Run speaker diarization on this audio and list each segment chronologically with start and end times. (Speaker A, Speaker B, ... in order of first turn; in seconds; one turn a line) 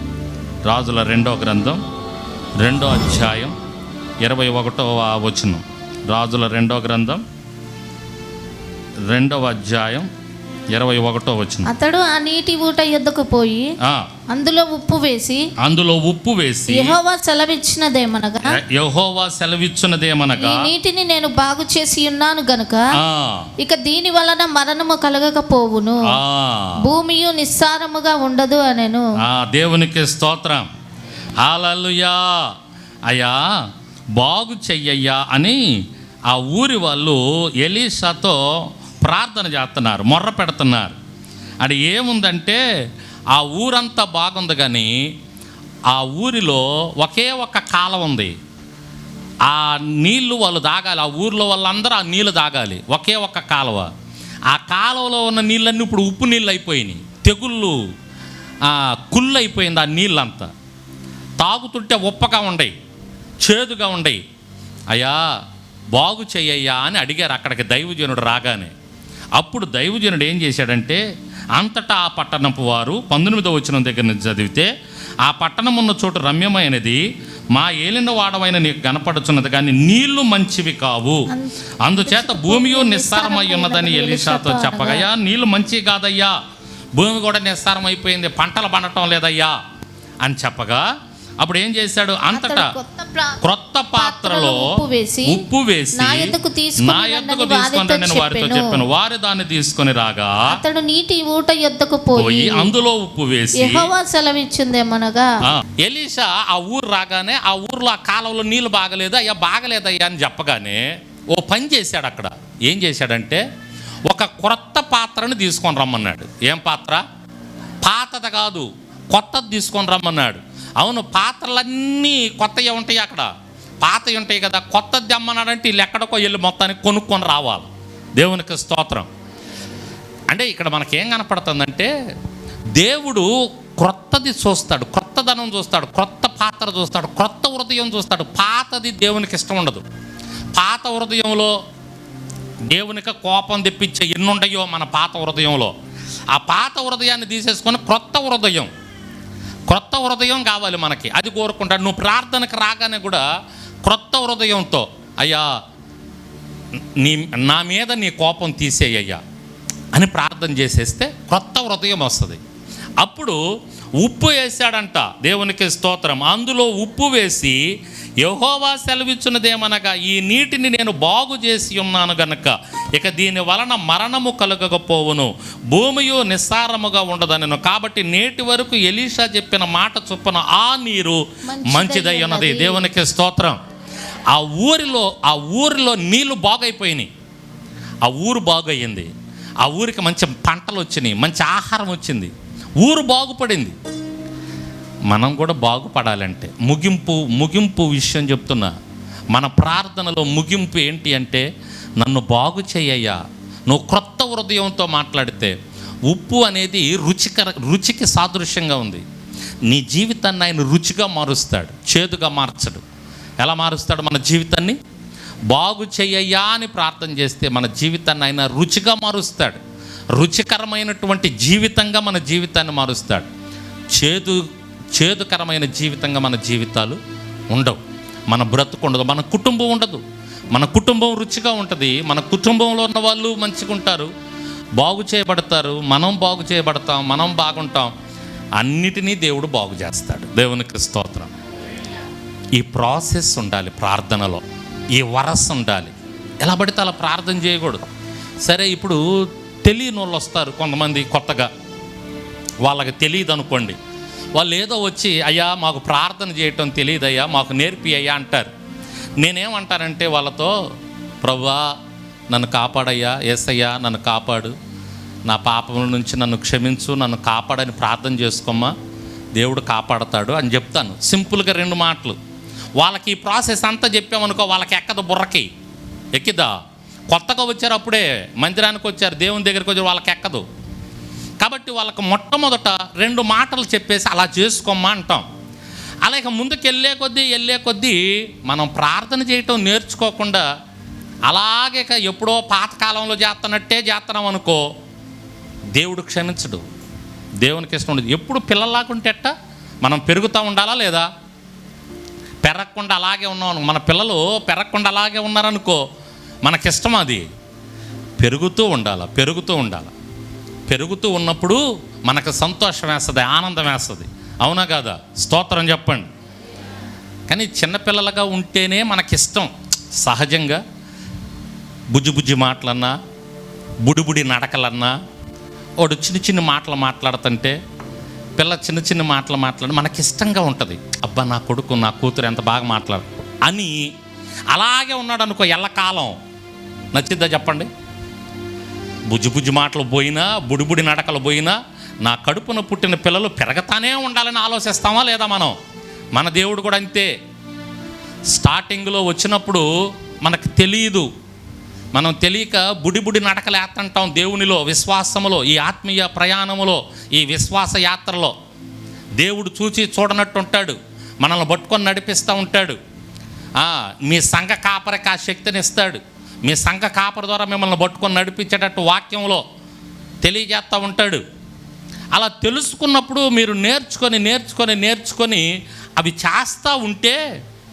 Speaker A: 0.7-1.8
Speaker A: 2.6-3.5
Speaker A: 4.2-7.2
Speaker A: 9.1-10.1
Speaker A: 10.7-11.7
Speaker B: 11.7-13.7
Speaker A: 13.8-14.1
Speaker B: 14.3-15.4
Speaker A: 15.6-17.0
Speaker B: 16.7-18.5
Speaker A: 18.5-20.7
Speaker B: 20.4-22.9
Speaker A: 22.9-23.5
Speaker B: 23.6-26.0
Speaker A: 26.1-26.9
Speaker B: 26.8-29.1
Speaker A: 29.2-30.7
Speaker A: 31.4-32.5
Speaker A: 33.1-33.4
Speaker A: 34.1-35.6
Speaker A: 36.3-41.0
Speaker A: 41.6-42.6
Speaker A: 43.3-45.1
Speaker A: 45.9-48.3
Speaker A: 49.4-53.9
Speaker A: 54.5-57.8
Speaker A: 58.6-60.5
Speaker A: 61.4-62.7
Speaker A: 63.4-64.2
Speaker A: 64.9-65.2
Speaker A: 65.9-68.7
Speaker A: 69.3-71.0
Speaker A: 71.5-74.7
Speaker A: 75.2-81.3
Speaker B: 81.3-85.1
Speaker A: 81.8-86.4
Speaker A: 86.9-89.6
Speaker A: 90.2-90.9
Speaker A: 91.4-92.7
Speaker B: 92.3-93.4
Speaker A: 93.4-100.6
Speaker B: 93.9-98.8
Speaker B: 100.5-102.7
Speaker A: 102.1-103.9
Speaker B: 103.5-105.3
Speaker A: 105.4-113.4
Speaker A: 114.0-117.0
Speaker A: 117.8-123.3
Speaker A: 123.8-129.1
Speaker A: 130.3-131.9
Speaker A: 132.7-139.8
Speaker A: 140.5-141.6
Speaker A: 142.7-145.7
Speaker A: 146.3-148.7
Speaker A: 149.7-153.2
Speaker A: 153.8-155.5
Speaker A: 156.9-159.2
Speaker A: 159.9-162.4
Speaker A: 163.0-163.4
Speaker A: 164.0-167.6
Speaker A: 168.2-183.6
Speaker B: 181.5-182.9
Speaker A: 184.3-187.1
Speaker A: 188.0-189.1
Speaker A: 189.6-193.8
Speaker A: 195.1-198.7
Speaker A: 199.3-201.4
Speaker A: 202.0-205.6
Speaker A: 206.1-209.0
Speaker A: 209.7-212.8
Speaker A: 213.4-214.8
Speaker A: 215.5-219.6
Speaker A: 220.1-223.3
Speaker A: 223.9-227.0
Speaker A: 227.5-230.0
Speaker A: 230.5-234.1
Speaker A: 234.8-237.9
Speaker A: 238.6-241.3
Speaker A: 242.5-247.8
Speaker A: 248.4-251.5
Speaker A: 252.6-253.8
Speaker A: 254.3-258.5
Speaker A: 259.2-260.5
Speaker A: 261.2-261.6
Speaker A: 262.3-264.5
Speaker A: 265.2-268.7
Speaker A: 269.4-272.2
Speaker A: 272.8-275.5
Speaker A: 276.1-276.6
Speaker A: 277.1-280.4
Speaker A: 281.4-285.2
Speaker A: 286.0-290.4
Speaker A: 291.3-294.6
Speaker A: 295.7-296.6
Speaker A: 297.4-301.1
Speaker A: 302.4-305.8
Speaker A: 306.4-307.2
Speaker A: 308.2-309.9
Speaker A: 310.7-316.1
Speaker A: 317.3-320.6
Speaker A: 321.9-322.9
Speaker A: 323.8-324.9
Speaker A: 325.8-327.6
Speaker A: 328.4-333.9
Speaker A: 334.5-336.2
Speaker A: 336.9-337.7
Speaker A: 339.1-345.6
Speaker A: 346.1-347.1
Speaker A: 348.3-349.7
Speaker A: 350.2-351.1
Speaker A: 351.9-358.3
Speaker A: 359.2-362.8
Speaker A: 363.6-369.4
Speaker A: 370.2-371.2
Speaker A: 372.1-375.5
Speaker A: 376.0-377.2